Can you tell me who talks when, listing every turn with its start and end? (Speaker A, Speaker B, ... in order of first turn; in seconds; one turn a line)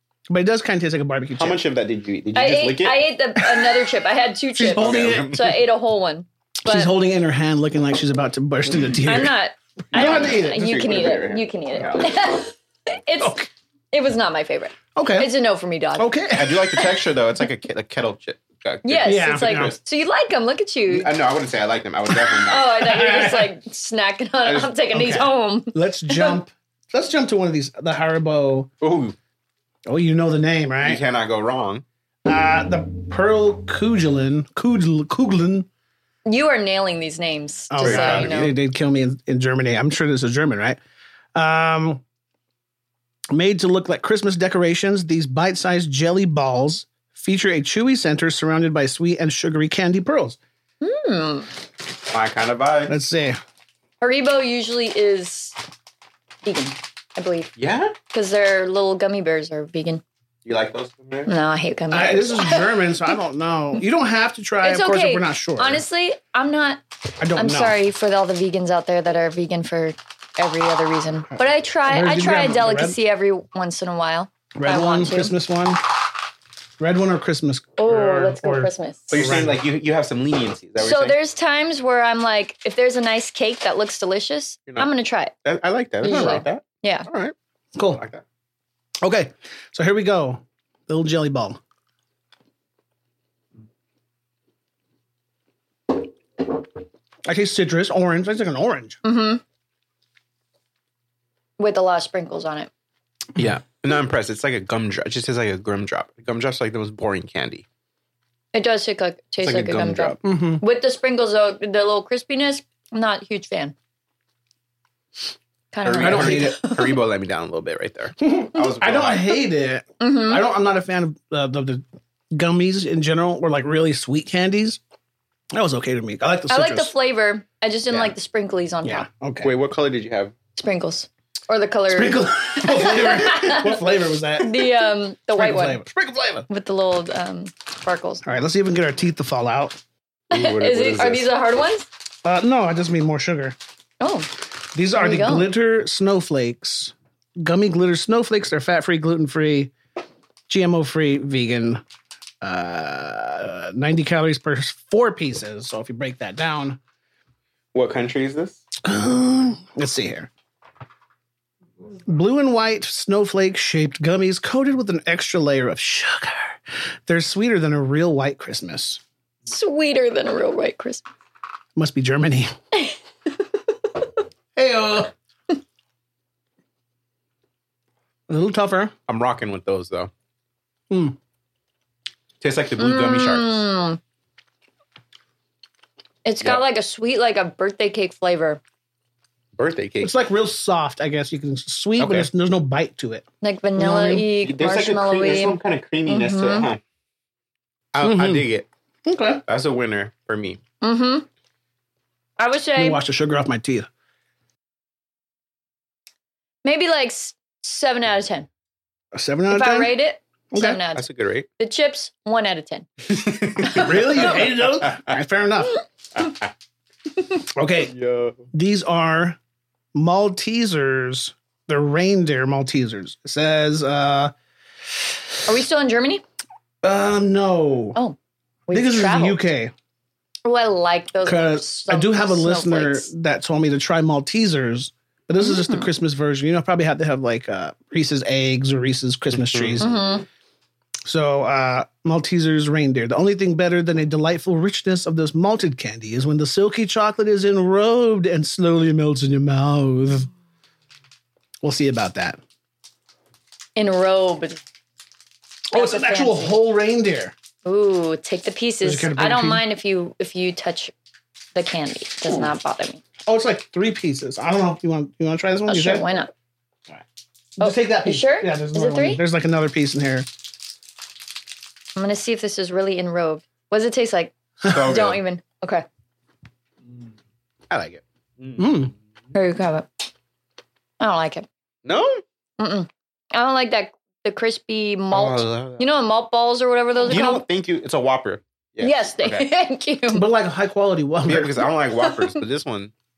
Speaker A: 0.3-1.6
Speaker B: 1.4-3.1
Speaker C: 2.3-6.9
Speaker A: 4.5-5.3
Speaker B: 4.7-5.6
Speaker A: 6.6-9.3
Speaker C: 9.0-16.1
Speaker A: 9.9-10.9
Speaker B: 9.9-12.1
Speaker A: 13.2-13.5
Speaker A: 14.9-15.3
Speaker A: 16.0-16.9
Speaker B: 16.3-19.8
Speaker C: 18.8-21.1
Speaker A: 19.0-19.7
Speaker B: 20.9-23.0
Speaker C: 22.4-26.4
Speaker A: 22.8-23.5
Speaker B: 24.4-24.7
Speaker A: 24.9-28.7
Speaker B: 28.8-29.1
Speaker A: 29.9-31.0
Speaker B: 30.8-31.8
Speaker A: 32.2-35.7
Speaker C: 36.2-38.5
Speaker A: 37.7-40.8
Speaker B: 37.8-38.5
Speaker A: 41.3-42.0
Speaker A: 43.3-50.4
Speaker C: 50.8-51.5
Speaker B: 52.1-52.9
Speaker A: 52.9-53.4
Speaker C: 54.0-55.6
Speaker C: 56.4-57.5
Speaker B: 57.6-57.9
Speaker C: 58.1-60.0
Speaker B: 60.4-61.3
Speaker C: 61.3-63.1
Speaker A: 61.9-65.8
Speaker C: 64.6-66.8
Speaker A: 67.2-67.8
Speaker C: 67.3-75.3
Speaker A: 71.3-73.0
Speaker A: 74.6-75.8
Speaker A: 76.8-79.6
Speaker C: 77.8-79.3
Speaker B: 79.1-81.2
Speaker C: 80.8-85.3
Speaker B: 85.4-87.3
Speaker C: 86.0-87.1
Speaker A: 87.8-88.0
Speaker B: 87.8-88.2
Speaker A: 89.0-91.6
Speaker A: 97.2-99.0
Speaker C: 99.0-99.4
Speaker C: 101.6-102.7
Speaker B: 103.3-107.6
Speaker C: 108.5-113.7
Speaker B: 109.4-110.2
Speaker A: 110.2-110.6
Speaker C: 115.7-117.0
Speaker B: 115.8-119.4
Speaker A: 115.9-116.5
Speaker A: 118.2-124.8
Speaker C: 120.0-120.4
Speaker A: 125.5-126.9
Speaker C: 126.5-129.1
Speaker A: 128.8-129.5
Speaker B: 129.4-130.3
Speaker C: 130.5-133.8
Speaker A: 131.9-134.6
Speaker C: 134.4-135.8
Speaker A: 135.3-136.4
Speaker C: 136.5-138.2
Speaker A: 138.2-139.8
Speaker B: 140.3-141.3
Speaker C: 140.3-141.9
Speaker A: 142.2-143.6
Speaker C: 144.0-144.3
Speaker A: 144.7-149.7
Speaker C: 144.9-145.5
Speaker A: 150.5-151.8
Speaker A: 152.4-156.8
Speaker B: 157.7-158.6
Speaker A: 158.8-160.3
Speaker A: 162.1-169.0
Speaker C: 169.5-171.1
Speaker A: 171.8-172.5
Speaker A: 174.6-175.1
Speaker A: 178.3-178.9
Speaker B: 179.1-180.1
Speaker A: 180.9-181.2
Speaker B: 182.4-183.6
Speaker C: 182.8-184.0
Speaker C: 186.2-188.6
Speaker B: 189.6-190.1
Speaker A: 190.0-194.3
Speaker B: 192.0-192.3
Speaker C: 193.4-196.7
Speaker B: 194.4-196.8
Speaker B: 197.9-198.7
Speaker A: 198.0-198.5
Speaker A: 199.1-199.4
Speaker B: 199.5-200.6
Speaker C: 200.8-201.3
Speaker C: 202.4-203.0
Speaker A: 202.8-203.9
Speaker C: 206.6-208.5
Speaker A: 209.1-209.9
Speaker C: 209.5-211.0
Speaker A: 210.5-210.8
Speaker B: 210.9-211.5
Speaker C: 211.6-212.9
Speaker B: 213.1-214.4
Speaker C: 213.6-214.4
Speaker A: 213.7-215.8
Speaker A: 217.5-217.9
Speaker B: 217.9-218.4
Speaker A: 218.5-219.4
Speaker A: 219.9-224.3
Speaker C: 225.4-226.2
Speaker A: 226.8-228.0
Speaker C: 228.7-229.4
Speaker A: 228.7-229.7
Speaker C: 230.4-233.1
Speaker A: 231.2-239.9
Speaker C: 235.4-235.9
Speaker B: 239.3-240.0
Speaker C: 239.8-240.2
Speaker A: 241.0-250.3
Speaker A: 251.6-252.4
Speaker C: 253.8-254.6
Speaker A: 255.7-257.3
Speaker C: 255.7-256.6
Speaker C: 257.6-260.9
Speaker A: 258.8-259.6
Speaker C: 261.5-263.0
Speaker A: 263.2-266.0
Speaker C: 265.7-266.3
Speaker A: 267.6-270.3
Speaker C: 267.6-269.2
Speaker C: 271.9-275.9
Speaker B: 274.6-275.2
Speaker B: 277.7-278.8
Speaker A: 278.6-278.9
Speaker C: 279.3-279.9
Speaker C: 281.0-281.4
Speaker B: 281.8-282.2
Speaker C: 282.6-287.4
Speaker B: 285.1-285.9
Speaker B: 287.1-289.5
Speaker C: 288.8-290.2
Speaker A: 290.1-291.6
Speaker B: 291.2-292.9
Speaker C: 292.1-292.3